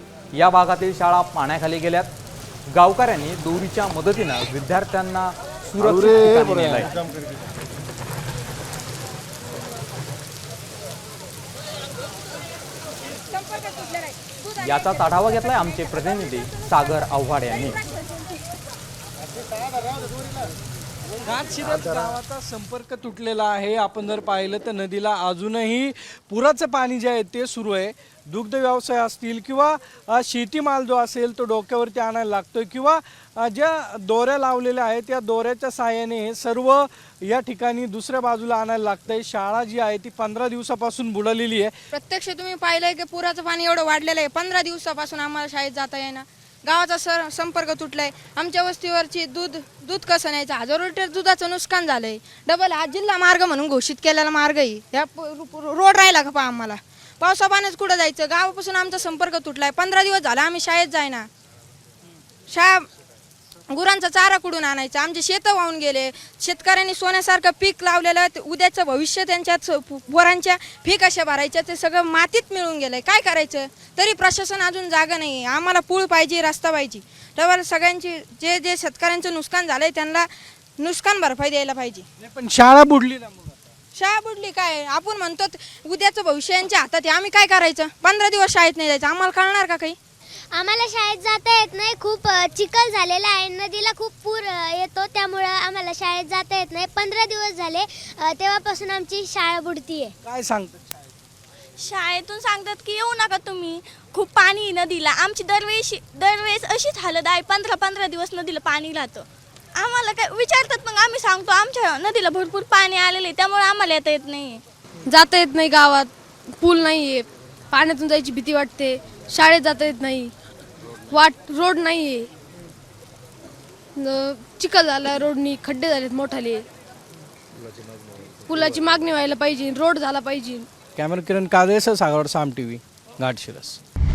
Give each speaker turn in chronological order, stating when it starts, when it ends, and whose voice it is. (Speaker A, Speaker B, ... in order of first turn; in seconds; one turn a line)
Speaker A: 0.3-2.1
Speaker A: 2.7-7.0
Speaker B: 13.3-14.5
Speaker A: 14.6-17.9
Speaker C: 21.2-41.7
Speaker B: 41.9-61.3
Speaker B: 62.5-62.9
Speaker B: 63.7-82.0
Speaker C: 82.2-83.5
Speaker B: 84.0-90.0
Speaker D: 90.5-100.1
Speaker C: 100.2-100.8
Speaker E: 101.8-114.6
Speaker F: 115.1-120.3
Speaker F: 121.1-122.3
Speaker F: 124.0-126.6
Speaker F: 128.5-130.7
Speaker C: 131.0-133.8